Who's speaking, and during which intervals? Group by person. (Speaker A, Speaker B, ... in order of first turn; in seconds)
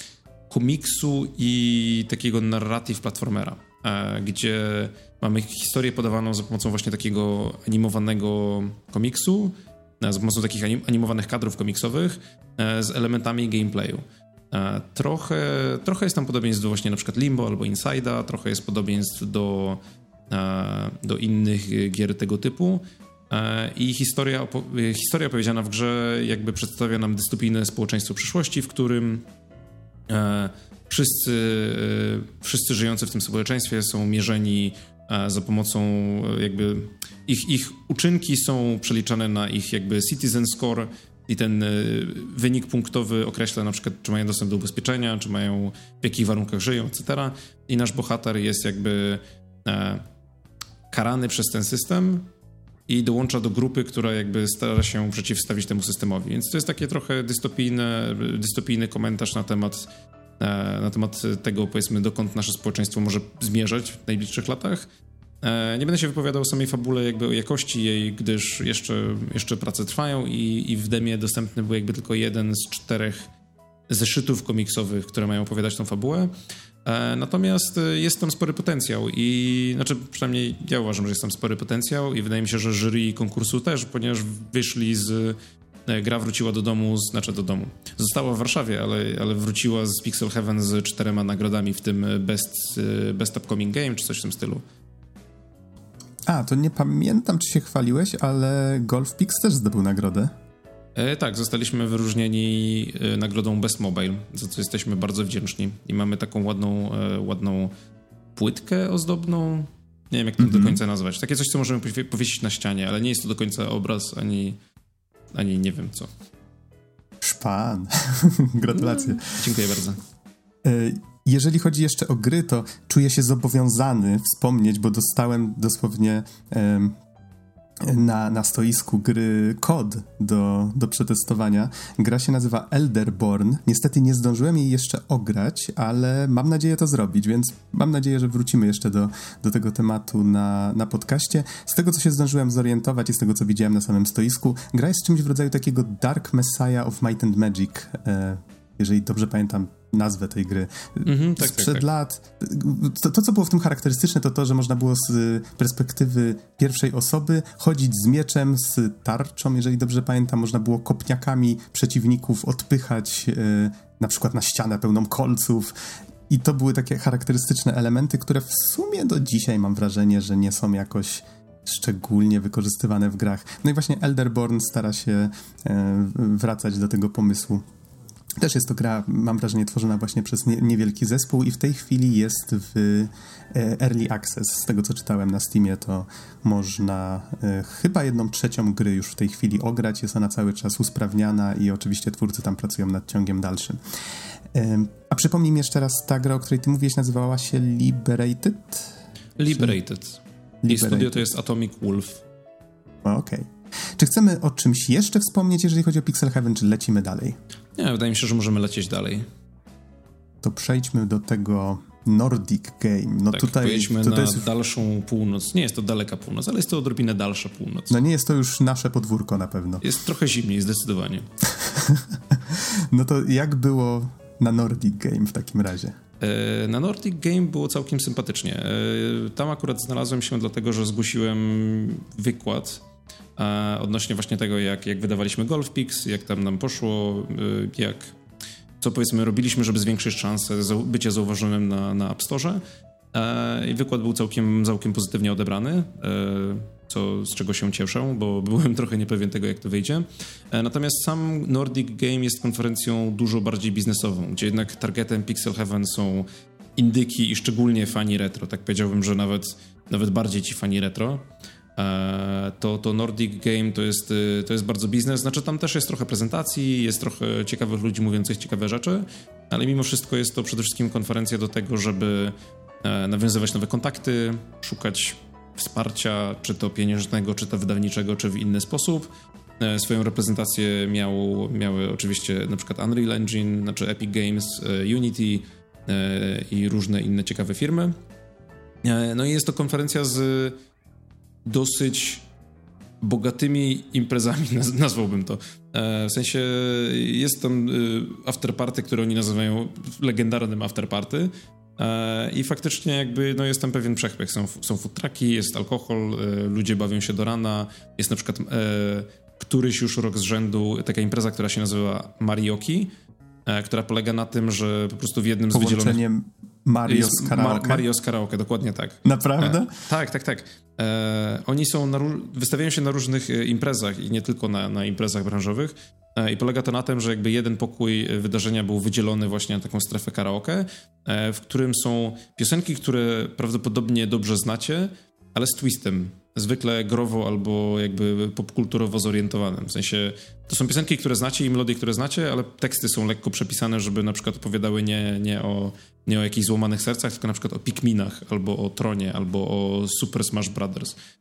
Speaker A: 0.5-29.2, 30.1-50.0, 50.9-52.3, 52.9-59.9, 60.4-64.9, 65.4-73.3, 73.9-76.3, 76.8-94.6, 101.0-107.7, 108.3-114.6, 115.3-116.1, 118.7-120.0, 151.0-151.8, 199.4-202.2, 207.8-209.2, 213.3-218.0, 219.8-221.3, 226.2-232.8, 233.4-238.1, 238.8-242.6, 243.1-261.2, 261.8-287.9, 288.8-290.6, 291.4-292.2, 293.0-312.9, 313.4-316.0, 316.9-350.9
Speaker B: 96.2-100.3, 110.4-110.8, 117.2-119.4, 120.6-127.0, 127.8-165.7, 166.3-177.6, 178.4-193.8, 194.5-198.9, 199.5-199.8, 200.6-201.3, 203.0-207.4, 210.4-214.4, 217.9-219.8, 221.6-226.0, 315.5-317.8, 319.0-319.7